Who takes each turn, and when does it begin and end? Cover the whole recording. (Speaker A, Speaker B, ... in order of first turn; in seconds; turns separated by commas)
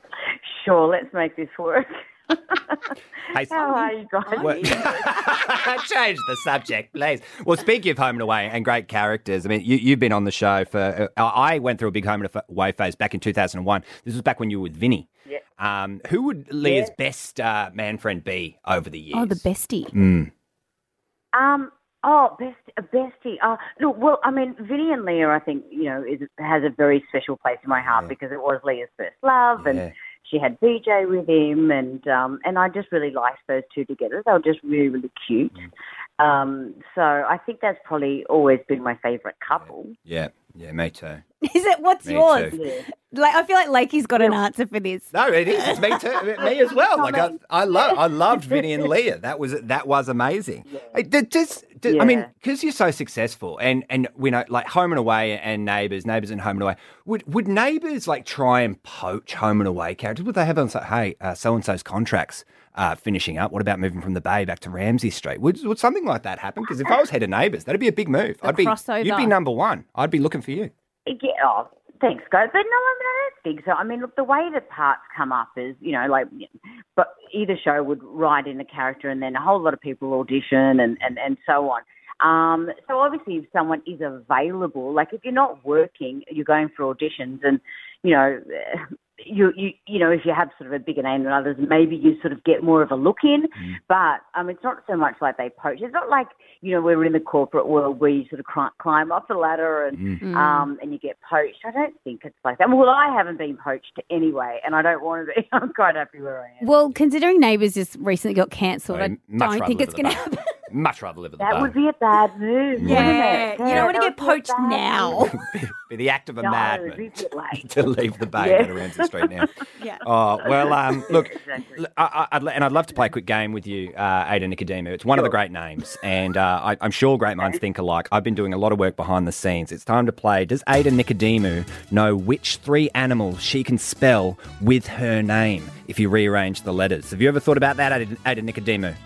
Speaker A: 0.5-2.9, Speaker B: 3.3-15.1, Speaker A: 3.5-5.2, Speaker B: 15.6-20.3, Speaker A: 16.6-16.9, Speaker C: 19.1-19.9, Speaker A: 21.3-35.7, Speaker B: 27.7-28.1, Speaker B: 29.6-29.9, Speaker A: 36.2-40.0, Speaker B: 39.6-41.2, Speaker C: 41.4-46.3, Speaker B: 42.0-42.6, Speaker A: 42.5-42.9, Speaker B: 45.1-70.7, Speaker A: 46.4-48.9, Speaker A: 50.7-51.0, Speaker A: 51.9-52.3, Speaker C: 68.4-69.3, Speaker A: 71.1-106.7, Speaker B: 100.0-100.2, Speaker C: 100.2-100.7, Speaker C: 106.6-110.5, Speaker B: 108.9-111.8, Speaker A: 111.4-115.3, Speaker B: 112.8-113.2, Speaker C: 112.8-115.3, Speaker B: 115.2-119.5, Speaker A: 116.4-117.7, Speaker A: 118.4-119.3, Speaker C: 119.8-120.0, Speaker B: 120.0-139.0, Speaker A: 120.4-121.8